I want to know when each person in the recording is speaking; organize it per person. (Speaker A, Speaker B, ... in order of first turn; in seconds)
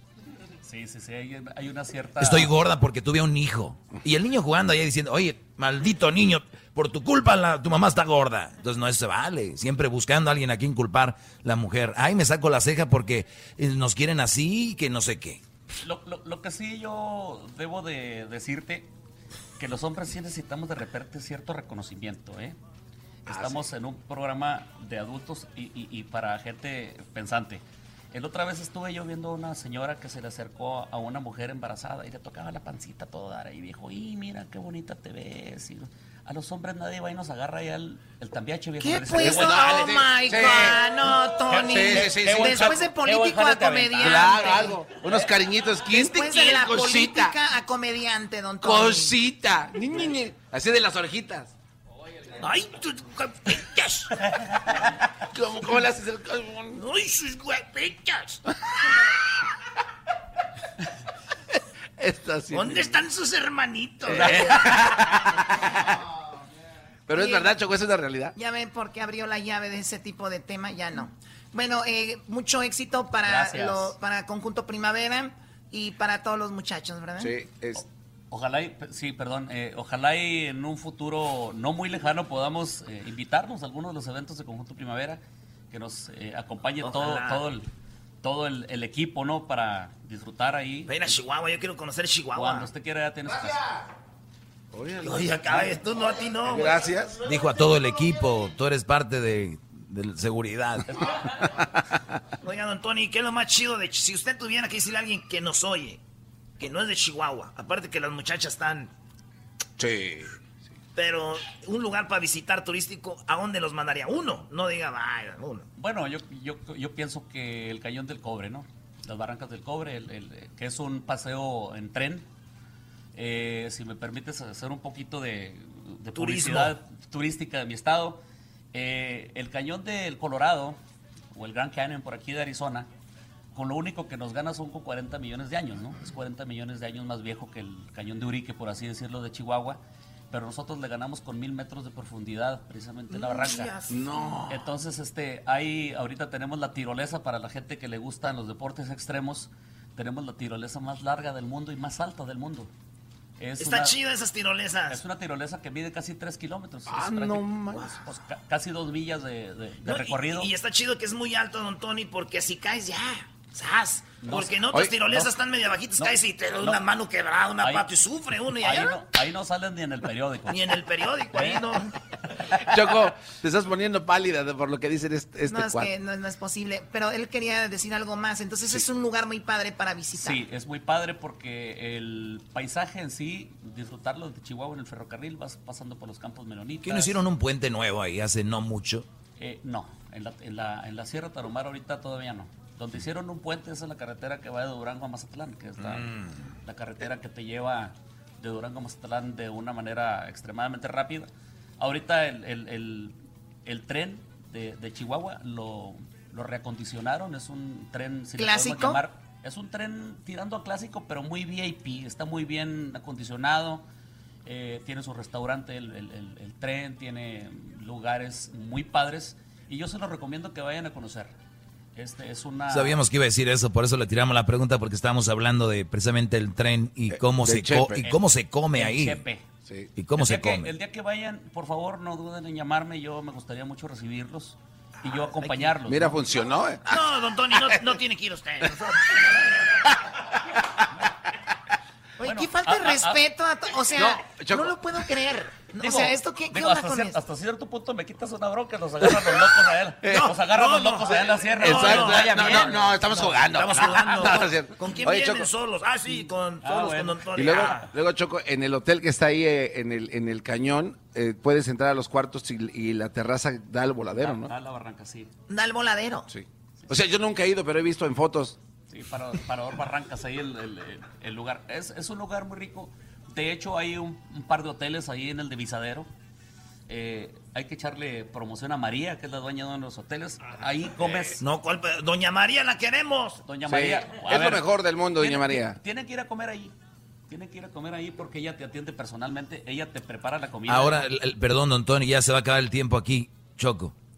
Speaker A: 0.7-2.5, 15.8-18.9, 19.6-22.6, 23.3-39.9, 41.5-44.7, 64.2-64.5, 73.2-74.0, 77.8-87.7, 88.2-91.1, 92.3-93.6, 115.8-122.3, 123.1-128.2, 128.7-130.8, 131.3-132.9, 133.5-143.8, 144.5-152.7, 153.4-153.9, 154.9-160.5, 164.2-165.2, 167.6-167.9, 168.5-170.6, 171.3-171.7, 172.3-172.7, 180.1-187.2, 189.4-213.8, 214.4-221.3, 221.9-223.0, 228.0-229.5, 230.1-236.2, 242.2-243.2, 245.8-253.3, 256.6-257.9, 264.2-265.3, 268.9-276.1, 276.9-281.4, 283.4-286.7, 287.3-291.1
Speaker B: 2.2-15.4, 97.2-100.9, 186.8-189.1, 222.7-229.2, 229.9-230.7, 290.7-293.9
Speaker C: 23.3-23.6, 39.2-40.8, 41.5-42.8, 44.0-47.4, 48.6-51.5, 55.3-56.8, 62.0-63.0, 64.0-65.7, 67.1-68.3, 77.2-77.8, 94.7-95.7, 96.5-97.2, 109.8-110.3, 143.9-144.7, 156.9-158.0, 172.7-175.9, 227.1-228.0, 229.7-229.9, 235.8-236.8, 243.9-244.7, 250.0-250.3, 251.6-255.5, 257.4-264.5, 266.3-268.6, 281.0-281.3, 283.6-285.8
Speaker D: 38.8-44.8, 45.9-49.2, 67.1-67.6, 68.3-77.3, 175.5-180.4, 208.4-209.0, 242.2-247.2, 265.5-266.3
Speaker E: 52.4-54.1, 56.7-58.4, 62.5-64.8, 86.8-87.5, 90.9-92.7, 95.0-96.8, 102.4-106.0, 106.6-108.9, 111.0-115.7, 126.2-126.7, 143.5-143.8, 153.6-155.0, 159.8-169.0, 170.5-171.9, 235.0-235.8, 236.8-239.0, 250.1-257.9, 281.4-283.4